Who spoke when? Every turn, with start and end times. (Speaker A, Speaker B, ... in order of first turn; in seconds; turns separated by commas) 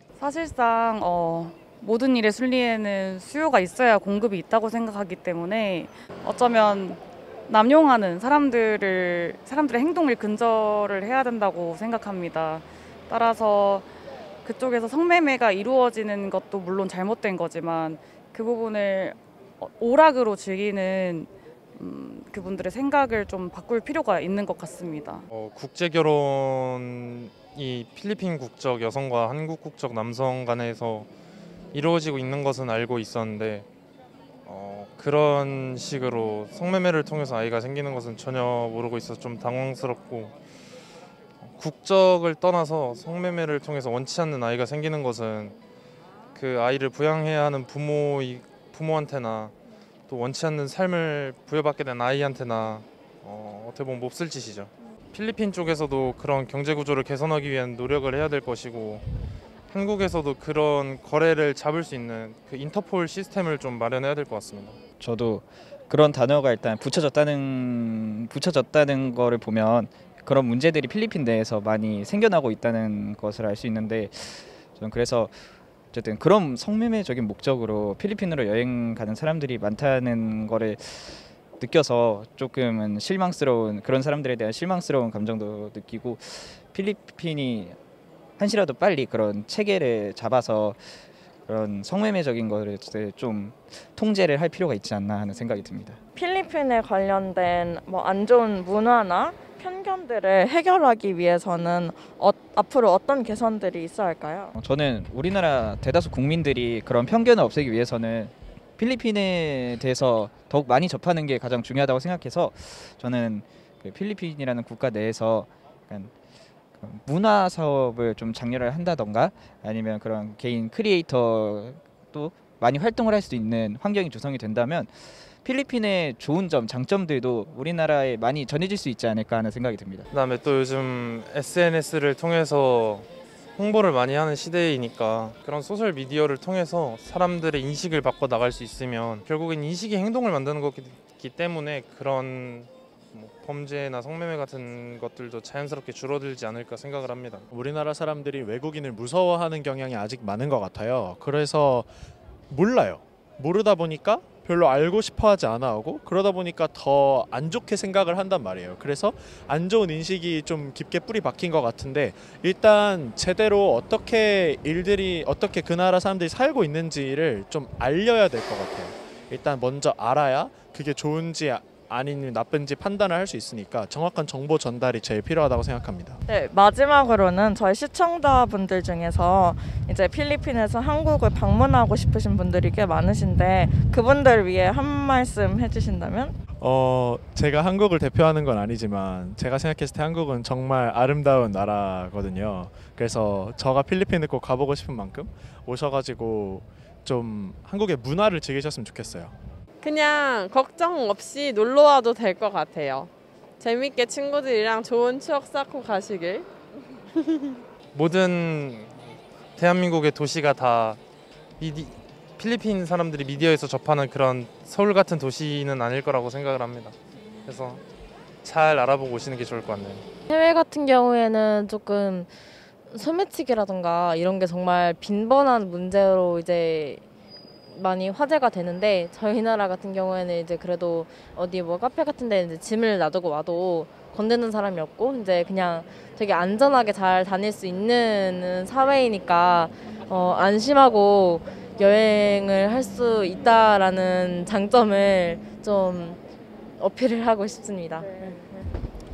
Speaker A: 0.2-13.9, Speaker A: 14.4-25.2, Speaker B: 25.3-31.1, Speaker B: 31.7-33.7, Speaker B: 34.5-40.3, Speaker B: 41.4-45.5, Speaker B: 46.4-49.5, Speaker B: 50.1-59.0, Speaker B: 59.7-64.8, Speaker C: 65.0-75.4, Speaker C: 75.9-87.8, Speaker C: 88.4-96.0, Speaker D: 96.2-104.5, Speaker C: 104.5-116.1, Speaker C: 116.8-130.1, Speaker B: 130.1-147.5, Speaker E: 147.5-151.9, Speaker E: 152.5-176.2, Speaker D: 176.3-186.4, Speaker E: 186.6-199.3, Speaker F: 199.8-206.5, Speaker F: 207.2-207.6, Speaker B: 207.9-208.9, Speaker B: 209.6-211.0, Speaker B: 211.6-217.8, Speaker B: 218.4-220.0, Speaker G: 220.3-222.3, Speaker G: 222.9-227.0, Speaker G: 227.7-246.2, Speaker G: 246.8-248.7